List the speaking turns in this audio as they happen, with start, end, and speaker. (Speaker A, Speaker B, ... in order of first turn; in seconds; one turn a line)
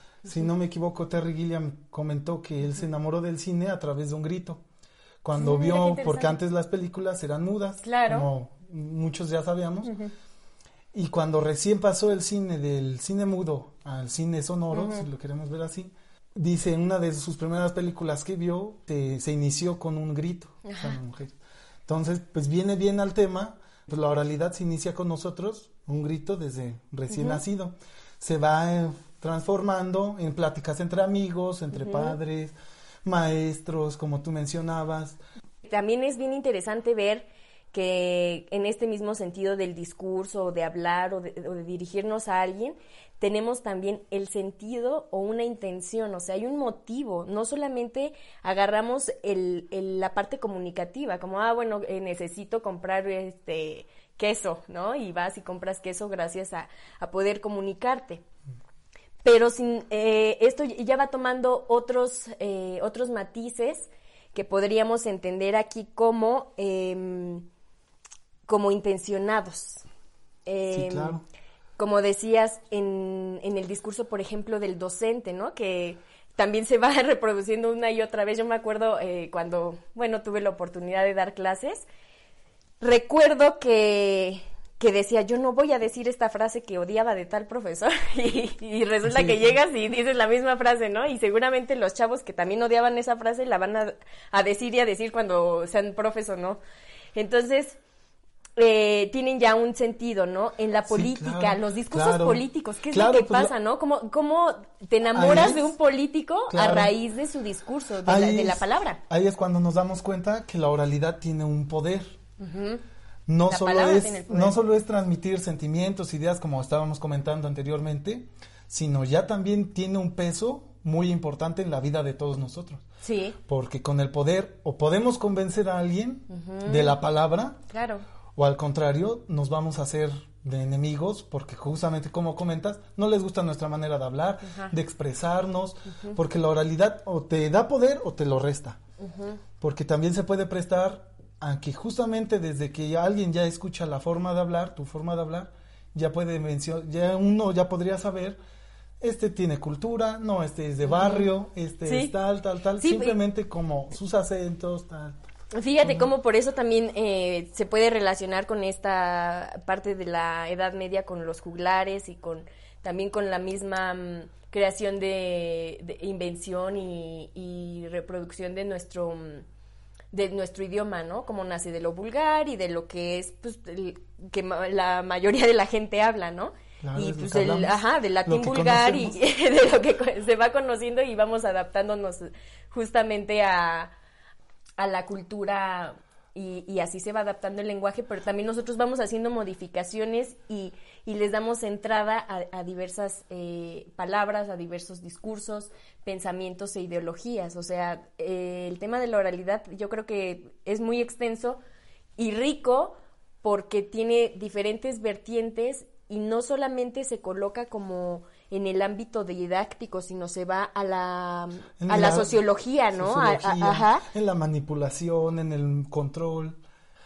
Speaker A: 0.2-4.6
Speaker A: 5.2-9.9
Speaker B: 5.4-6.4
Speaker B: 7.8-8.3
Speaker B: 9.8-10.1
Speaker A: 10.9-21.4
Speaker B: 14.7-15.1
Speaker B: 20.6-21.0
Speaker A: 21.9-35.2
Speaker B: 27.1-27.4
Speaker B: 31.7-32.2
Speaker B: 35.6-58.2
Speaker B: 59.2-67.5
Speaker B: 68.5-69.8
Speaker B: 70.5-71.2
Speaker A: 70.7-71.2
Speaker B: 71.8-81.8
Speaker B: 82.8-96.6
Speaker A: 89.0-89.6
Speaker B: 97.2-97.8
Speaker B: 98.6-109.0
Speaker A: 100.9-103.5
Speaker A: 105.1-105.7
Speaker A: 106.5-106.9
Speaker A: 108.0-112.2
Speaker B: 112.4-112.8
Speaker A: 113.3-122.8
Speaker B: 113.5-114.6
Speaker B: 123.0-123.4
Speaker A: 123.5-127.6
Speaker B: 126.3-127.0
Speaker B: 127.7-128.0
Speaker A: 128.4-138.8
Speaker B: 134.4-134.7
Speaker B: 139.0-139.4
Speaker A: 139.6-148.4
Speaker A: 149.0-155.2
Speaker B: 150.9-151.3
Speaker B: 151.8-152.1
Speaker B: 152.8-153.2
Speaker B: 155.5-169.4
Speaker A: 155.8-156.1
Speaker B: 170.1-183.9
Speaker A: 176.8-179.2
Speaker B: 184.8-201.6
Speaker B: 202.2-214.1
Speaker A: 211.8-212.4
Speaker A: 212.9-216.6